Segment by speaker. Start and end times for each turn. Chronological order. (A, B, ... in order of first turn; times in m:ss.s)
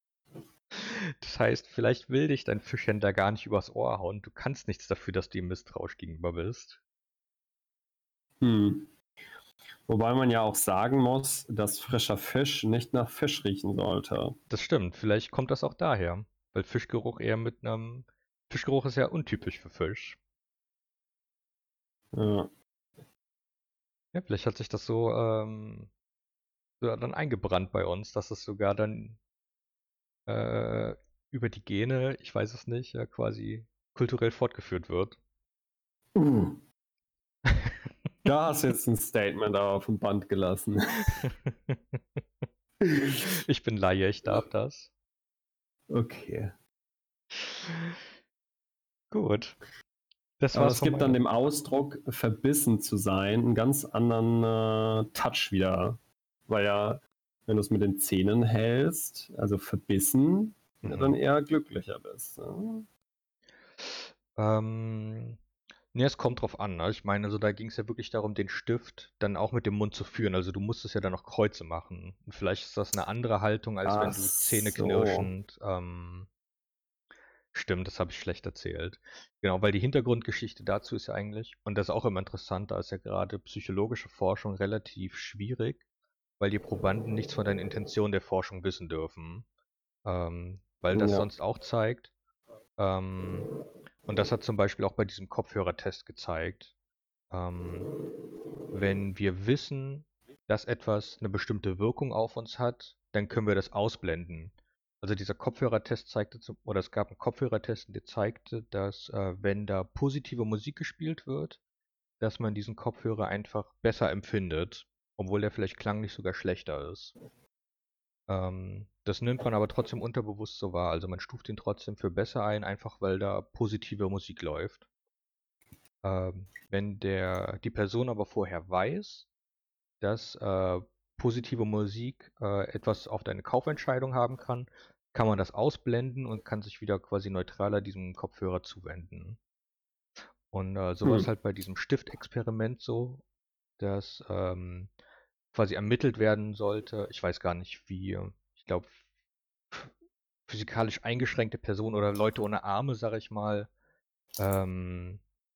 0:00.7-0:06.8 A
0:08.4-0:08.9 B
0:09.8-0:14.4 B
0:14.5-0:20.2 A
0:22.1-0:22.5 B
0:24.1-0:25.9 A
0:26.8-0:29.2 A
0:30.3-0:35.2 A
0:36.1-0:36.6 B
0:37.4-0:37.8 A
0:38.2-0:41.0 B
0:41.1-0:42.0 A
0:42.8-0:43.2 B
0:43.5-0:44.9 A
0:45.9-0:46.5 B
0:47.3-0:48.0 A
0:49.1-0:49.6 A
0:50.4-0:51.2 A
0:50.5-1:02.8 B
1:00.8-1:01.2 A
1:03.8-1:05.4 A
1:05.9-1:16.3 A
1:13.8-1:15.3 B
1:17.5-1:25.8 A
1:26.4-1:29.4 A
1:30.0-1:32.1 A
1:30.9-1:31.3 B
1:32.8-1:33.5 A
1:34.0-1:36.7 A
1:37.3-1:37.9 A
1:38.7-1:51.6 A
1:52.2-1:57.1 A
1:58.3-2:04.8 A
2:06.0-2:09.3 A
2:10.0-2:19.4 A
2:20.5-2:23.2 A
2:23.8-2:24.9 A
2:25.5-2:28.9 A
2:30.5-2:33.7 A
2:34.4-2:35.2 A